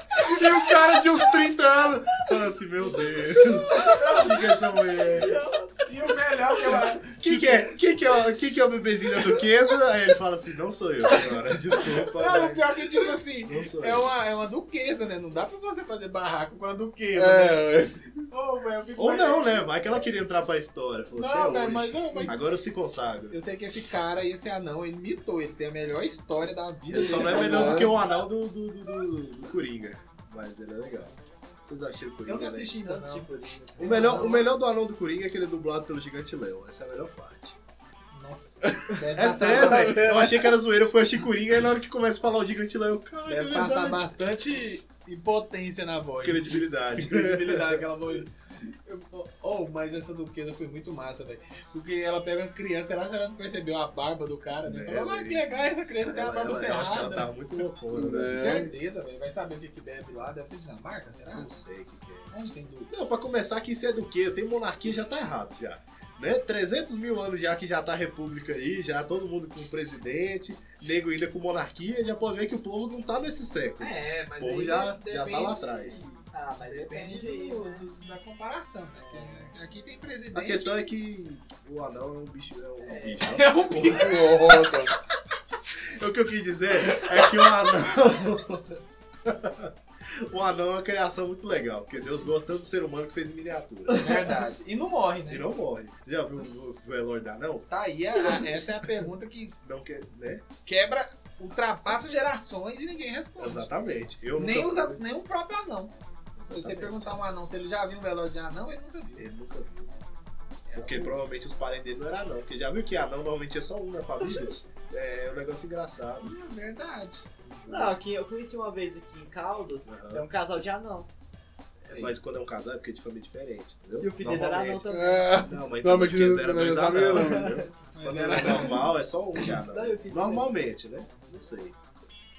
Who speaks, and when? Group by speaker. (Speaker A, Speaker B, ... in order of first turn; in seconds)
Speaker A: 0.2-5.3, 7.0-12.6, 13.4-14.1, 19.0-23.4, 26.9-32.7, 33.8-37.5, 39.1-44.1, 46.2-47.8, 54.6-58.7, 61.3-62.3, 62.9-76.1, 80.3-84.1, 86.0-94.1, 95.3-97.7, 99.6-100.4, 103.4-105.0, 106.4-107.1, 109.2-109.9, 110.8-116.3, 119.9-120.2, 121.8-131.8
Speaker B: 3.8-4.5, 5.8-7.6, 11.9-17.6, 18.3-19.7, 21.1-22.4, 23.3-27.9, 32.2-34.4, 38.1-40.3, 43.3-57.3, 58.3-61.5, 62.3-62.9, 73.8-80.7, 83.2-84.8, 94.0-95.4, 97.7-99.5, 100.7-103.7, 104.3-105.9, 106.5-109.2, 110.7-111.1, 116.2-117.6, 127.9-128.9
Speaker C: 5.1-5.8, 32.8-34.4, 76.3-77.8, 79.0-79.5, 82.8-83.2, 117.7-121.1, 124.0-125.4, 127.1-127.6, 129.7-130.5
Speaker D: 17.1-18.1, 27.0-27.9, 38.6-40.5, 57.9-58.7, 83.9-84.9, 124.9-127.6